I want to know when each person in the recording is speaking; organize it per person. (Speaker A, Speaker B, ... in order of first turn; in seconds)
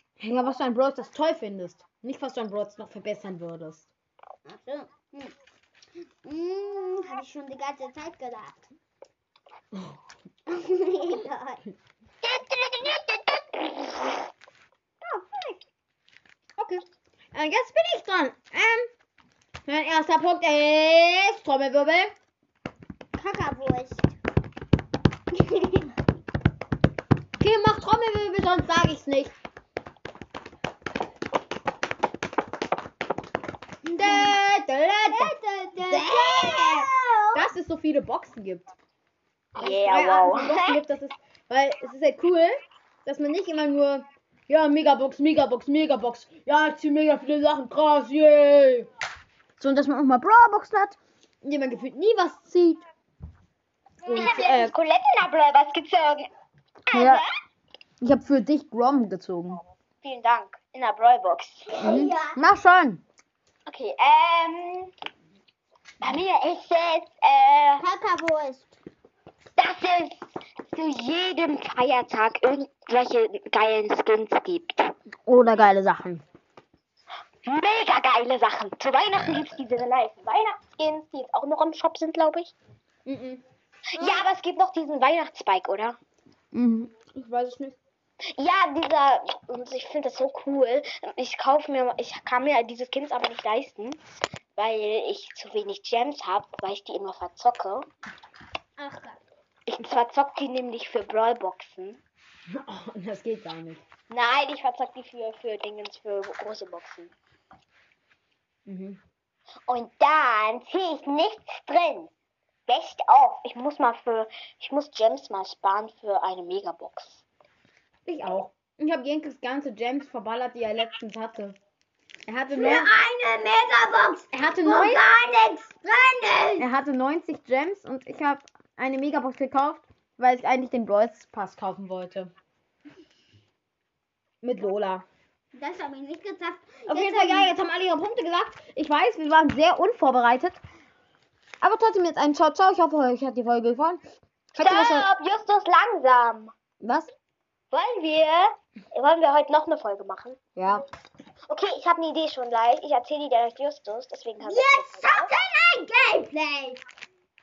Speaker A: 0.2-3.9, 17.3-18.9, 19.6-22.1, 27.4-29.3, 33.9-38.7, 39.5-48.9, 49.6-52.8, 54.0-54.7, 56.9-57.2, 58.0-59.6, 61.8-63.0, 75.2-76.2, 83.0-83.4, 86.5-87.8, 102.5-103.8, 108.7-109.0, 118.0-121.6, 122.3-122.9, 124.3-125.0, 126.6-132.3, 134.4-135.0, 136.9-140.6, 141.6-144.0, 144.6-145.1, 146.8-147.1, 150.6-150.8
Speaker B: 4.4-5.3, 6.2-8.7, 10.5-11.6, 15.0-15.6, 23.1-24.1, 25.3-25.9, 33.9-34.4, 35.0-37.4, 61.7-62.4, 67.8-68.8, 84.0-84.2, 98.8-99.2, 122.5-126.7, 135.5-137.5, 154.4-156.8
Speaker C: 12.2-14.2, 39.6-40.8, 54.0-56.3, 56.9-57.2, 60.0-61.7, 63.6-64.9, 66.0-67.9, 69.6-74.9, 77.4-82.5, 84.0-86.0, 88.3-94.0, 94.6-97.8, 99.7-102.0, 104.1-107.1, 109.7-112.1, 112.7-117.2, 144.6-146.5, 147.7-150.4, 151.5-155.3